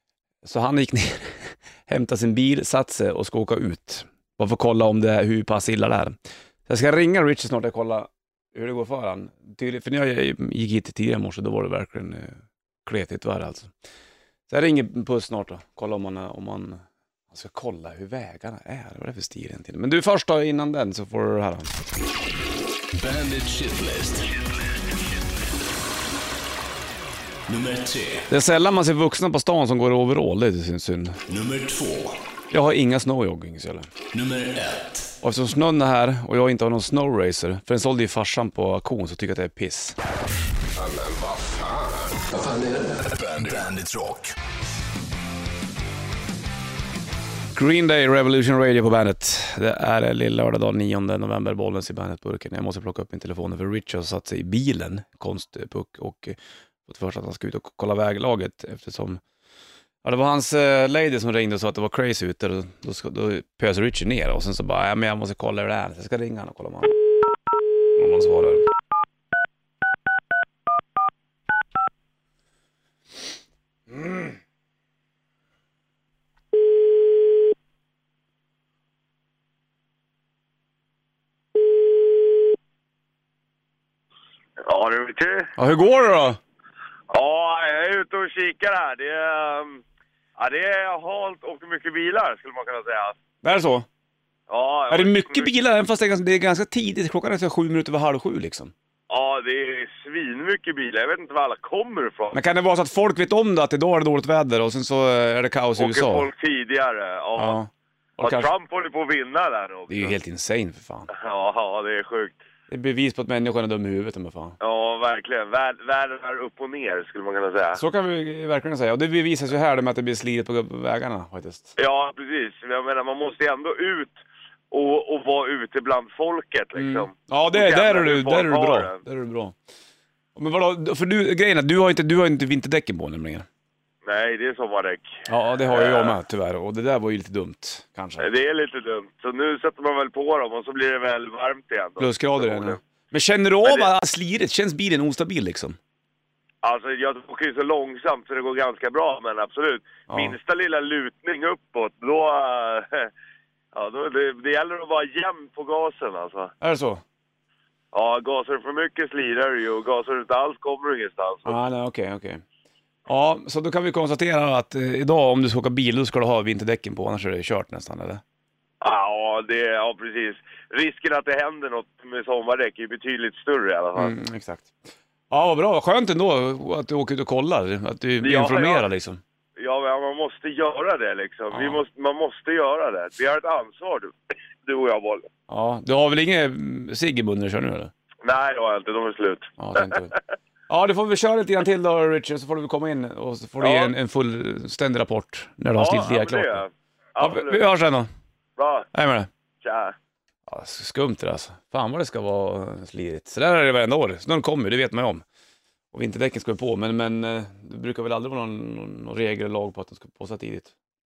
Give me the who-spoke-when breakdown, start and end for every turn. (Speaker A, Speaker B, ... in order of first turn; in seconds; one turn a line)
Speaker A: 0.4-6.2
Speaker A: 6.7-13.7
Speaker A: 14.5-16.8
Speaker A: 17.3-21.7
Speaker B: 23.0-24.3
Speaker B: 27.5-28.3
Speaker A: 28.3-31.2
Speaker B: 31.3-32.2
Speaker A: 32.5-33.9
Speaker B: 34.1-35.1
Speaker A: 35.2-40.0
Speaker B: 40.8-44.3
Speaker A: 47.5-59.2
Speaker A: 60.0-67.0
Speaker A: 68.0-68.7
Speaker A: 73.9-74.4
Speaker C: 84.6-85.5
Speaker A: 85.6-86.4
Speaker C: 87.1-89.8
Speaker C: 90.4-93.2
Speaker A: 93.4-93.9
Speaker C: 94.5-95.5
Speaker A: 94.9-98.7
Speaker C: 99.1-102.4
Speaker A: 102.3-106.3
Speaker C: 105.8-107.6
Speaker A: 107.4-108.5
Speaker C: 108.2-110.2
Speaker A: 109.9-111.1
Speaker C: 111.1-112.4
Speaker A: 112.7-114.6
Speaker C: 114.6-117.8
Speaker A: 117.8-121.7
Speaker C: 121.8-124.2
Speaker C: 124.7-129.0
Speaker A: 126.8-129.6
Speaker A: 130.4-133.5
Speaker C: 134.1-135.1
Speaker A: 135.3-138.3
Speaker C: 135.7-136.2
Speaker C: 138.2-142.8
Speaker A: 142.0-145.8
Speaker C: 146.6-153.1
Speaker A: 150.1-150.4
Speaker C: 153.7-156.5
Speaker A: 156.6-157.0
Speaker C: 157.9-161.5
Speaker A: 161.5-162.4
Speaker A: 163.1-168.2
Speaker C: 168.8-174.1
Speaker A: 174.0-174.7
Speaker A: 175.3-179.2
Speaker C: 178.2-178.8
Speaker C: 179.6-185.3
Speaker A: 181.5-181.8
Speaker A: 185.5-187.9
Speaker C: 188.2-189.5
Speaker A: 189.6-190.1
Speaker A: 190.7-196.6
Speaker C: 193.6-193.9
Speaker C: 195.8-197.6
Speaker A: 197.2-198.1
Speaker C: 198.6-198.9
Speaker A: 198.9-199.3
Speaker C: 199.6-199.9
Speaker A: 200.5-205.2
Speaker A: 205.9-210.7